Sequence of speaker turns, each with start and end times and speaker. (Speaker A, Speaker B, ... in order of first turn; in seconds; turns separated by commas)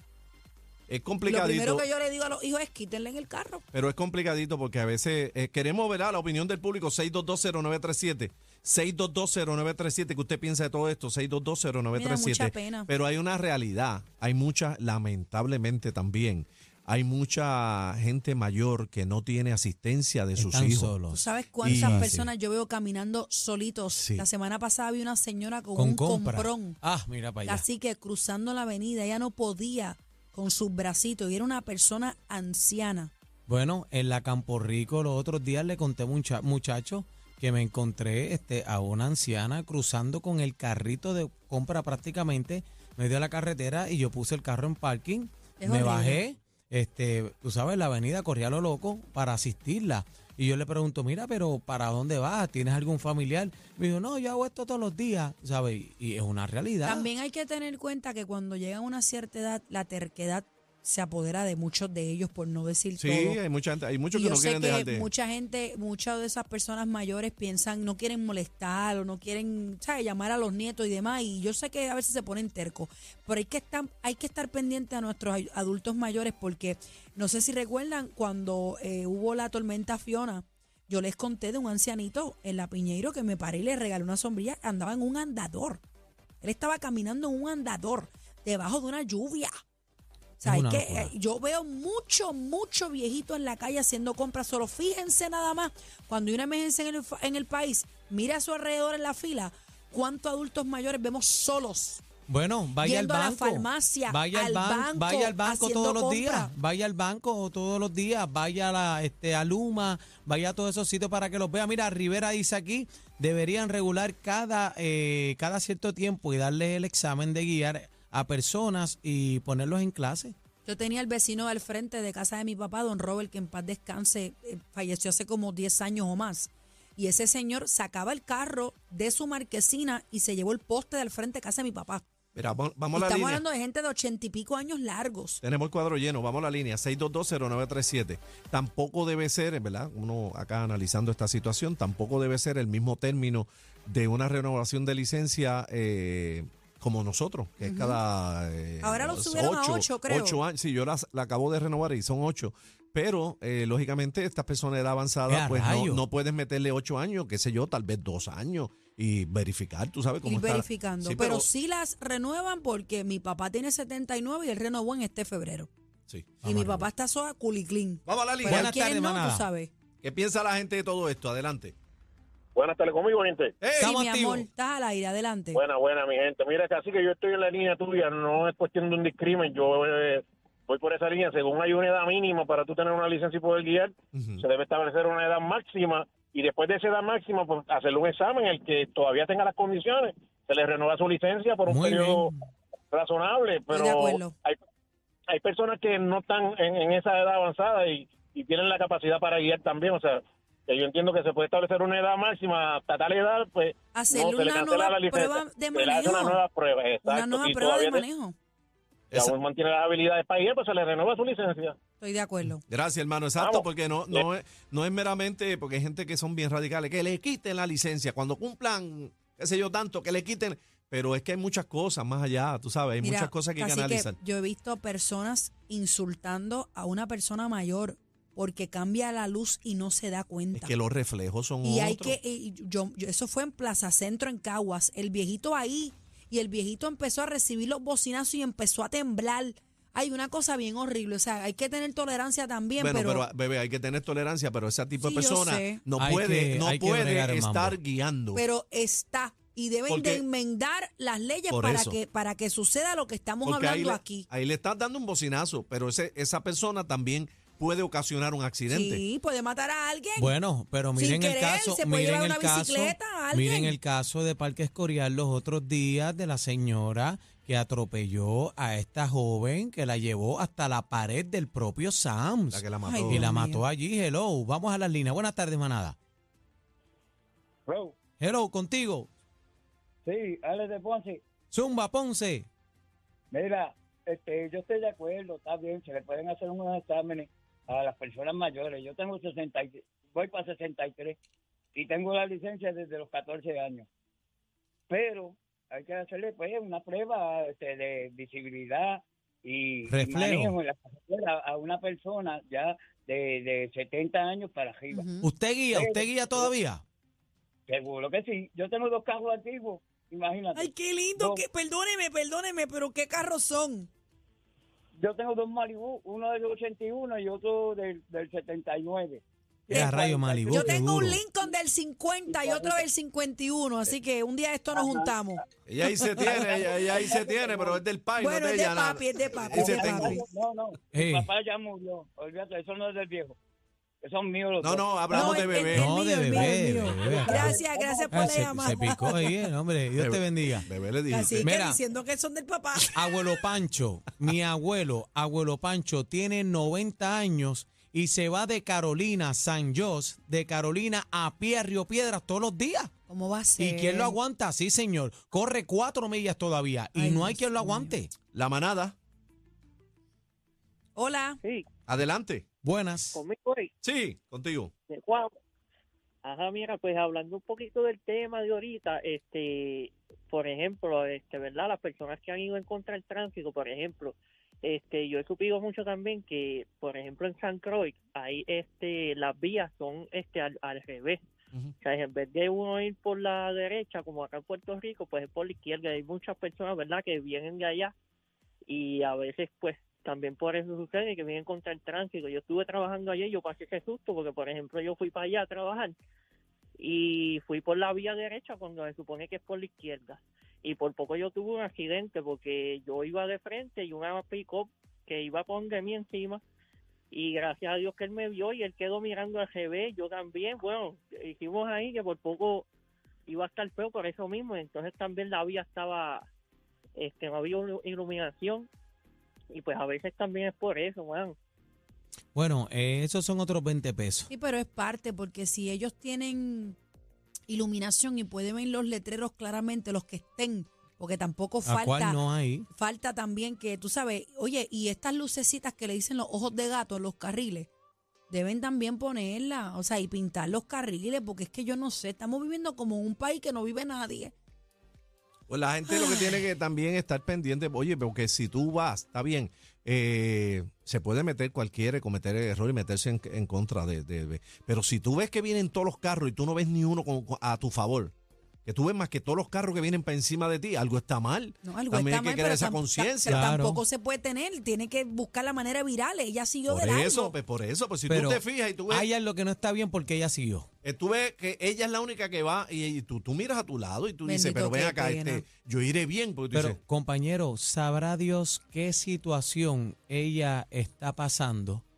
Speaker A: 0.9-1.8, Speaker B: 1.2-3.6, Speaker A: 3.7-20.9, Speaker B: 11.9-12.9, Speaker C: 20.4-22.2, Speaker B: 21.1-26.8, Speaker A: 21.6-22.3, Speaker A: 23.9-24.3, Speaker C: 25.8-27.6, Speaker B: 27.4-33.1, Speaker C: 33.5-57.1, Speaker B: 45.6-46.2, Speaker B: 56.8-63.4, Speaker A: 63.0-65.1, Speaker B: 64.1-85.8, Speaker B: 86.4-89.5, Speaker B: 90.4-102.0, Speaker C: 90.4-91.1, Speaker C: 102.3-120.3, Speaker B: 102.8-106.5, Speaker B: 120.7-132.0, Speaker A: 132.3-133.4, Speaker B: 132.9-135.4, Speaker A: 135.4-161.5, Speaker B: 147.6-148.0, Speaker B: 148.8-150.4, Speaker C: 155.3-156.0, Speaker B: 160.2-165.7, Speaker A: 166.1-166.5, Speaker B: 166.4-169.7, Speaker C: 166.4-166.8, Speaker A: 168.1-168.7, Speaker C: 168.4-169.5, Speaker A: 170.0-171.7, Speaker D: 172.5-173.6, Speaker A: 173.6-173.9, Speaker C: 173.8-174.5, Speaker B: 173.8-175.6, Speaker D: 175.5-192.3, Speaker A: 184.1-184.4, Speaker C: 191.7-192.4, Speaker D: 192.9-194.6, Speaker B: 193.7-194.3, Speaker D: 195.3-208.0, Speaker B: 203.9-206.4, Speaker B: 207.0-208.3, Speaker D: 209.1-211.8, Speaker B: 212.0-212.6, Speaker A: 212.7-224.2, Speaker D: 213.4-214.2, Speaker B: 223.0-230.7, Speaker A: 230.5-232.2, Speaker B: 231.6-243.2, Speaker A: 242.8-248.4, Speaker B: 245.0-245.8, Speaker C: 246.0-247.8, Speaker B: 248.3-254.3, Speaker A: 249.9-250.2, Speaker A: 251.5-252.0, Speaker A: 253.4-259.0, Speaker B: 258.7-260.3, Speaker C: 260.2-275.9, Speaker B: 260.9-263.8, Speaker A: 272.5-273.2, Speaker B: 272.9-273.6, Speaker E: 277.7-278.0, Speaker C: 278.2-279.1, Speaker E: 280.0-281.2, Speaker C: 281.5-282.5, Speaker E: 283.3-291.2, Speaker E: 291.7-293.9, Speaker E: 294.9-305.1, Speaker C: 299.9-300.6, Speaker B: 304.9-305.3, Speaker C: 305.2-306.8, Speaker E: 305.7-306.5, Speaker E: 307.7-311.4, Speaker B: 310.5-313.9, Speaker E: 315.0-321.1, Speaker C: 319.7-321.2, Speaker B: 320.5-325.4, Speaker E: 322.3-322.8, Speaker E: 324.7-325.1, Speaker A: 325.7-330.2, Speaker E: 326.1-327.8, Speaker B: 328.2-330.2, Speaker E: 329.5-333.4, Speaker C: 330.9-331.3, Speaker E: 334.0-335.6, Speaker A: 334.6-335.9, Speaker B: 335.1-339.4, Speaker C: 335.7-340.7, Speaker E: 336.2-339.0, Speaker A: 339.9-341.5, Speaker B: 341.1-343.3, Speaker C: 341.4-341.8, Speaker C: 342.9-352.9, Speaker B: 353.1-354.2, Speaker C: 353.6-358.1, Speaker B: 356.9-358.0, Speaker A: 358.3-358.9, Speaker B: 360.9-361.4, Speaker A: 361.9-362.4, Speaker C: 362.6-363.2, Speaker F: 363.1-363.7, Speaker A: 363.8-364.7, Speaker F: 364.9-365.3, Speaker F: 366.2-381.2, Speaker F: 381.8-387.9, Speaker F: 388.7-395.9, Speaker F: 396.8-406.4, Speaker F: 407.1-412.7, Speaker F: 413.3-416.2, Speaker F: 416.9-418.7, Speaker F: 419.5-421.4, Speaker C: 422.3-424.3, Speaker B: 424.3-426.8, Speaker B: 427.5-437.7, Speaker C: 431.6-432.7, Speaker B: 438.3-444.3, Speaker A: 445.5-458.1, Speaker B: 445.9-446.4, Speaker A: 458.6-463.5, Speaker B: 461.6-467.4, Speaker C: 463.3-463.8, Speaker A: 466.7-469.1, Speaker C: 468.1-470.7, Speaker A: 470.8-476.8, Speaker B: 474.2-475.4, Speaker C: 476.5-481.8